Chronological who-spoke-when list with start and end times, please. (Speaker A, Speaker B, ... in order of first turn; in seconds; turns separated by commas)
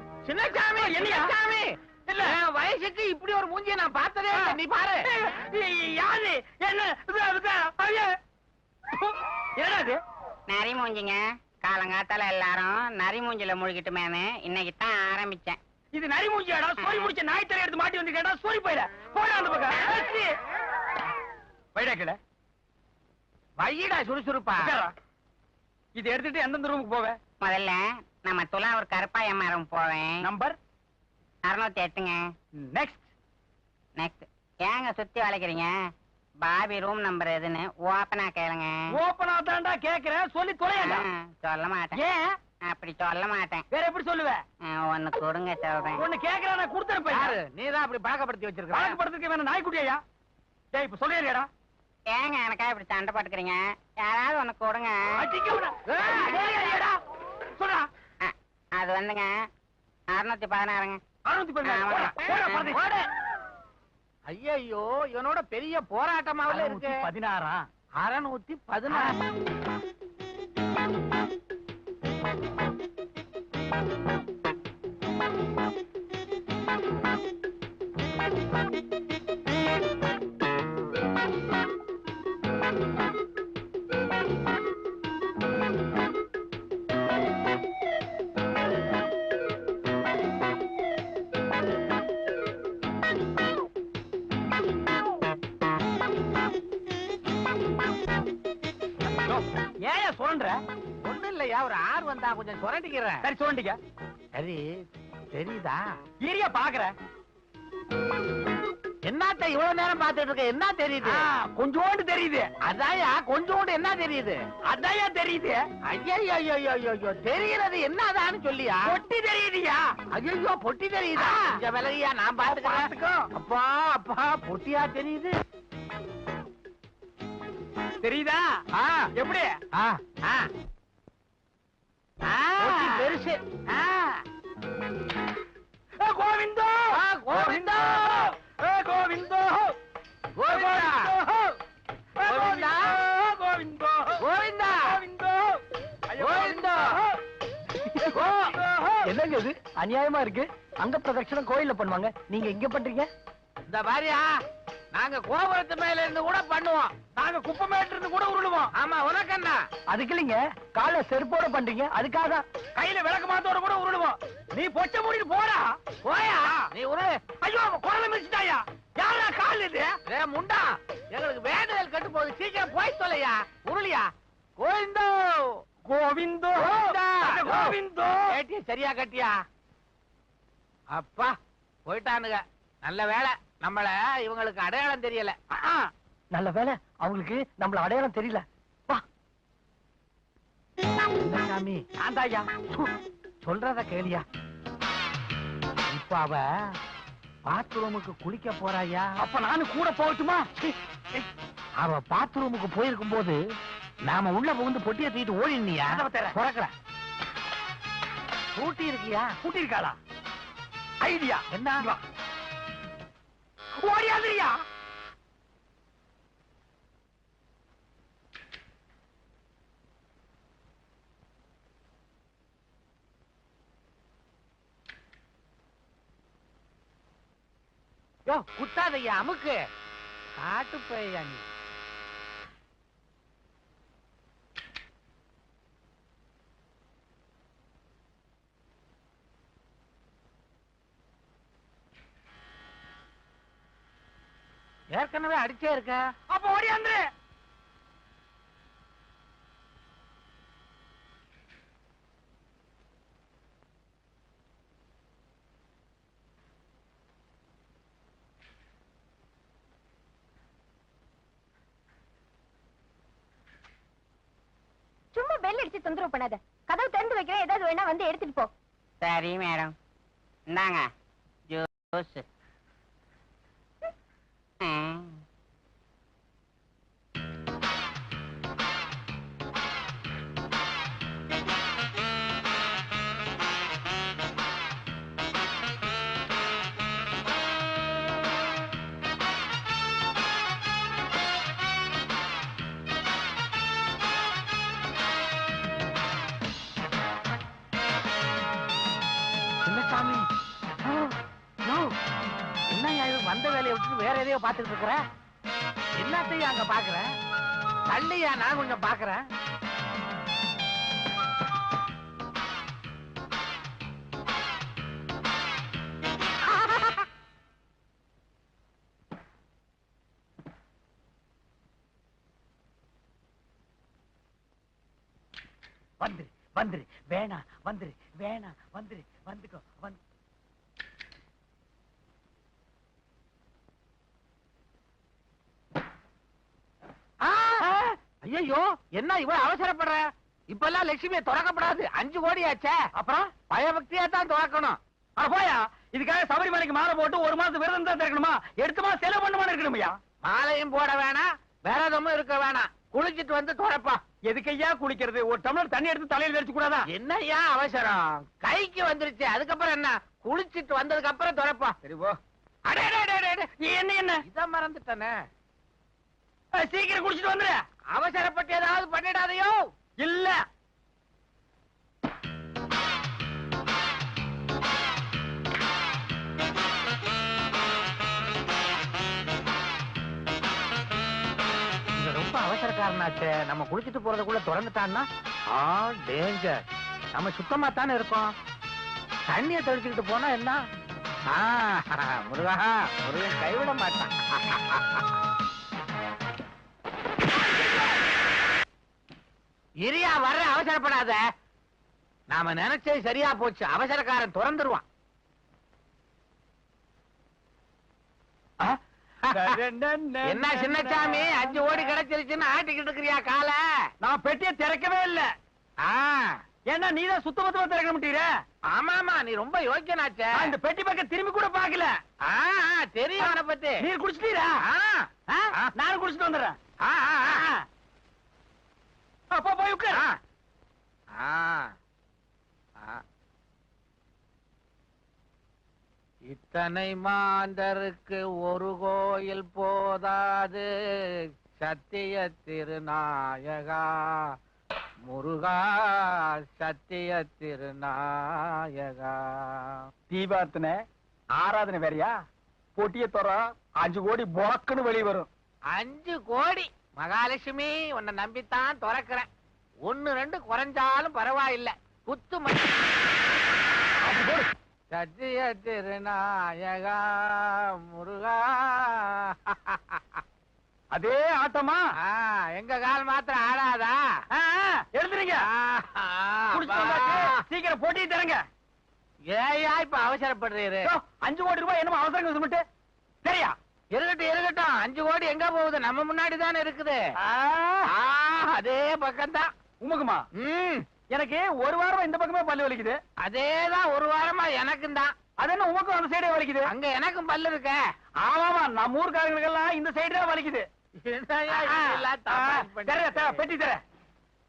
Speaker A: 0.2-5.0, Speaker B: 0.8-1.3, Speaker B: 2.1-2.3, Speaker B: 4.3-8.1, Speaker B: 8.9-10.0, Speaker C: 10.5-15.6, Speaker B: 15.9-20.3, Speaker C: 16.8-17.1, Speaker B: 21.7-22.2, Speaker A: 23.6-24.7, Speaker B: 24.6-24.9, Speaker B: 25.9-27.2, Speaker C: 27.4-30.2, Speaker B: 30.2-30.6, Speaker C: 31.4-32.3, Speaker B: 32.6-33.0, Speaker C: 34.0-35.7, Speaker C: 36.4-38.8, Speaker B: 38.9-41.1, Speaker C: 40.8-42.0, Speaker B: 41.9-42.3, Speaker C: 42.7-43.6, Speaker B: 43.7-44.4, Speaker C: 44.6-46.0, Speaker B: 46.0-47.4, Speaker A: 47.1-49.0, Speaker B: 48.7-50.0, Speaker B: 50.7-51.5, Speaker C: 52.1-55.1, Speaker B: 55.2-56.9, Speaker A: 55.9-56.7, Speaker B: 57.6-57.9, Speaker C: 58.2-59.5, Speaker C: 60.1-61.0, Speaker B: 61.3-62.8, Speaker C: 61.6-62.7, Speaker A: 62.7-63.0, Speaker A: 64.3-67.0, Speaker B: 66.5-67.7, Speaker A: 68.0-69.2, Speaker B: 99.1-100.6, Speaker A: 101.0-103.2, Speaker B: 103.2-103.8, Speaker A: 104.4-104.8, Speaker A: 105.3-105.8, Speaker B: 106.2-106.9, Speaker A: 109.0-111.3, Speaker B: 111.0-112.5, Speaker A: 112.6-114.4, Speaker B: 114.7-115.6, Speaker A: 115.9-118.9, Speaker B: 118.8-119.9, Speaker A: 120.1-125.3, Speaker B: 121.2-121.5, Speaker B: 122.6-123.1, Speaker B: 128.0-128.4, Speaker A: 128.7-129.1, Speaker B: 129.2-129.5, Speaker A: 129.7-130.4, Speaker B: 132.2-133.1, Speaker A: 132.6-133.6, Speaker B: 136.0-139.7, Speaker A: 136.9-138.2, Speaker A: 140.4-141.1, Speaker B: 140.5-141.5, Speaker B: 142.2-144.2, Speaker A: 142.2-142.9, Speaker A: 144.2-144.9, Speaker B: 144.8-147.1, Speaker A: 146.2-147.0, Speaker B: 147.9-149.1, Speaker A: 148.1-148.5, Speaker D: 149.0-153.1, Speaker A: 153.7-154.3, Speaker A: 154.9-156.9, Speaker B: 157.2-158.7, Speaker A: 158.7-159.6, Speaker D: 159.9-162.4, Speaker B: 162.8-165.8, Speaker A: 166.0-167.2, Speaker B: 167.4-169.9, Speaker A: 170.1-174.1, Speaker A: 174.6-175.6, Speaker B: 175.9-178.3, Speaker A: 176.6-177.7, Speaker A: 178.3-179.3, Speaker A: 180.9-181.3, Speaker A: 181.9-185.3, Speaker B: 185.5-185.9, Speaker D: 186.3-189.0, Speaker A: 191.2-191.8, Speaker B: 192.0-192.5, Speaker A: 193.4-194.2, Speaker A: 195.9-196.4, Speaker A: 197.5-199.1, Speaker B: 199.2-200.5, Speaker A: 200.6-201.2, Speaker A: 201.8-203.4, Speaker A: 204.1-206.7, Speaker B: 205.9-206.3, Speaker A: 208.6-209.3, Speaker B: 209.4-210.0, Speaker B: 211.0-212.0, Speaker A: 211.5-211.9, Speaker B: 213.8-214.6, Speaker A: 228.3-229.6, Speaker A: 230.4-231.4, Speaker A: 244.9-246.0, Speaker B: 246.3-247.0, Speaker E: 265.1-268.5, Speaker C: 269.0-269.7, Speaker C: 270.5-270.9, Speaker C: 271.5-272.2, Speaker C: 274.6-275.2, Speaker A: 299.6-300.3, Speaker A: 300.9-301.1, Speaker A: 301.6-301.9, Speaker A: 302.7-305.0, Speaker A: 306.0-307.1, Speaker A: 307.9-309.2, Speaker B: 326.0-330.0, Speaker A: 337.2-342.8, Speaker B: 342.9-343.3, Speaker A: 343.5-344.8, Speaker B: 345.2-349.9, Speaker A: 350.2-354.0, Speaker B: 354.2-356.9, Speaker A: 356.9-361.7, Speaker B: 361.8-362.2, Speaker A: 362.7-363.5, Speaker B: 363.6-364.2, Speaker A: 364.2-365.1, Speaker B: 366.6-367.5, Speaker A: 367.9-369.6, Speaker B: 370.0-370.4, Speaker A: 381.9-386.6, Speaker A: 387.1-388.3, Speaker A: 389.3-390.6, Speaker A: 391.3-395.1, Speaker B: 397.5-397.9, Speaker A: 399.8-401.2, Speaker A: 402.3-404.8, Speaker B: 408.6-411.9, Speaker A: 409.3-409.5, Speaker A: 410.2-413.6, Speaker B: 414.0-415.3, Speaker A: 415.8-416.4, Speaker B: 416.7-418.3, Speaker A: 418.7-420.5, Speaker B: 420.3-421.9, Speaker A: 422.2-423.8, Speaker B: 423.2-424.5, Speaker A: 424.6-425.7, Speaker B: 425.3-426.6, Speaker A: 426.8-427.4, Speaker B: 427.3-427.6, Speaker B: 429.3-430.0, Speaker A: 431.2-431.7, Speaker A: 436.3-444.2, Speaker A: 445.1-449.8, Speaker B: 450.1-450.8, Speaker B: 451.4-452.1, Speaker B: 452.8-455.3, Speaker A: 455.7-459.3, Speaker A: 459.8-462.8, Speaker B: 464.0-464.5, Speaker A: 464.9-470.2, Speaker B: 470.9-471.8, Speaker A: 472.0-474.0, Speaker B: 474.3-475.4, Speaker A: 475.4-477.4, Speaker B: 476.5-478.4, Speaker A: 479.3-480.9, Speaker B: 480.8-482.6, Speaker B: 483.2-483.6, Speaker A: 483.9-487.0, Speaker B: 487.2-487.9, Speaker A: 487.9-489.5, Speaker B: 489.8-490.2, Speaker A: 490.4-490.8, Speaker B: 491.1-493.0, Speaker A: 493.2-495.1, Speaker B: 495.4-496.7, Speaker A: 496.7-497.8, Speaker B: 498.2-500.6, Speaker A: 501.0-503.4, Speaker B: 501.5-503.8